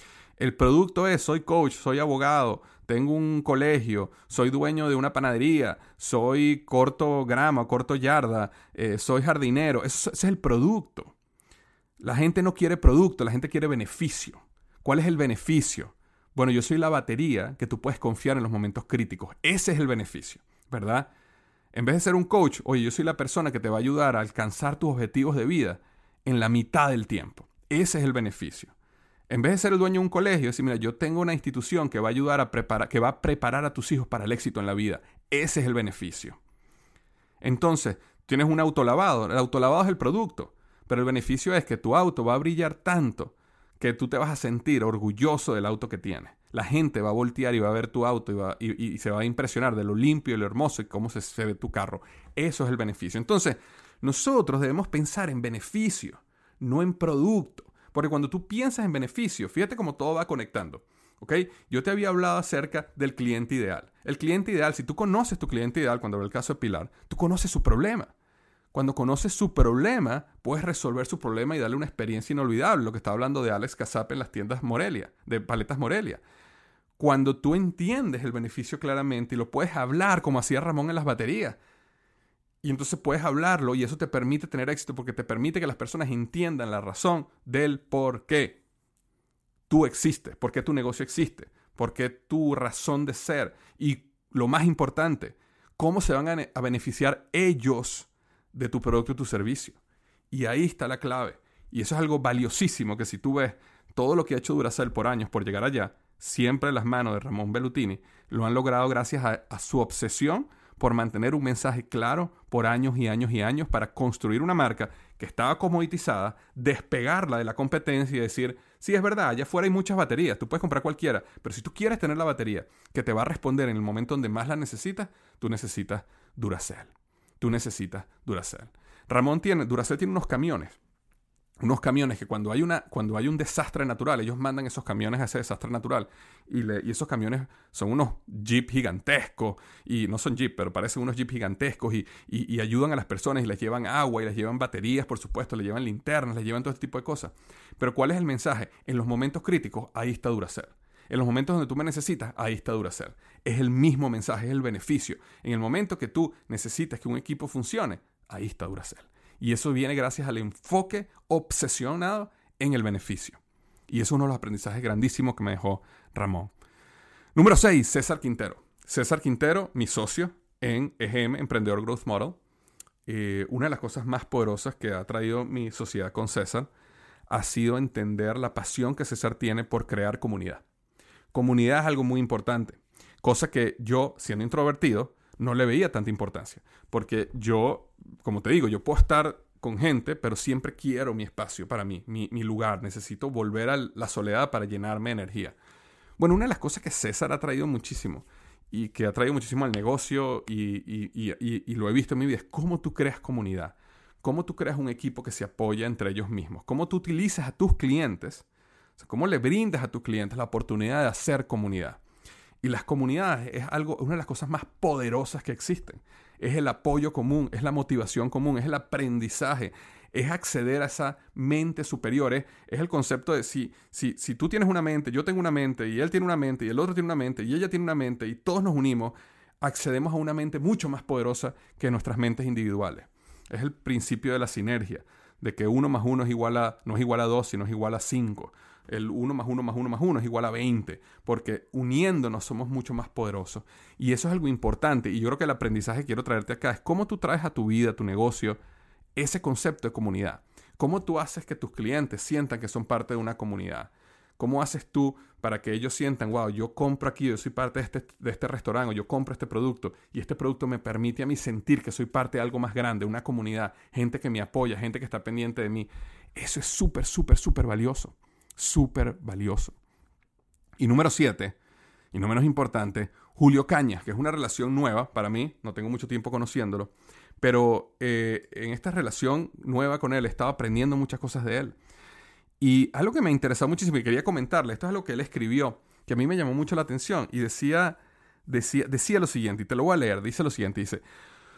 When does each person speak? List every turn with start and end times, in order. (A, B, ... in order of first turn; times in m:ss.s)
0:00.4-0:11.1 A
0:12.0-0:21.1 A
0:21.7-0:28.7 A
0:29.3-0:36.4 A
0:37.4-1:08.1 A
1:08.7-1:16.2 A
1:17.0-1:21.6 A
1:22.6-1:28.6 A
1:29.7-1:39.8 A
1:40.3-2:10.8 A
2:11.6-2:46.5 A
2:47.3-2:52.4 A
2:53.1-2:56.7 A
2:57.3-3:00.6 A
3:01.3-3:15.6 A
3:16.2-3:28.4 A
3:29.0-3:32.0 A
3:32.6-4:08.6 A
4:09.2-4:29.7 A
4:30.8-4:31.6 A
4:32.1-4:41.8 A
4:42.6-4:51.0 A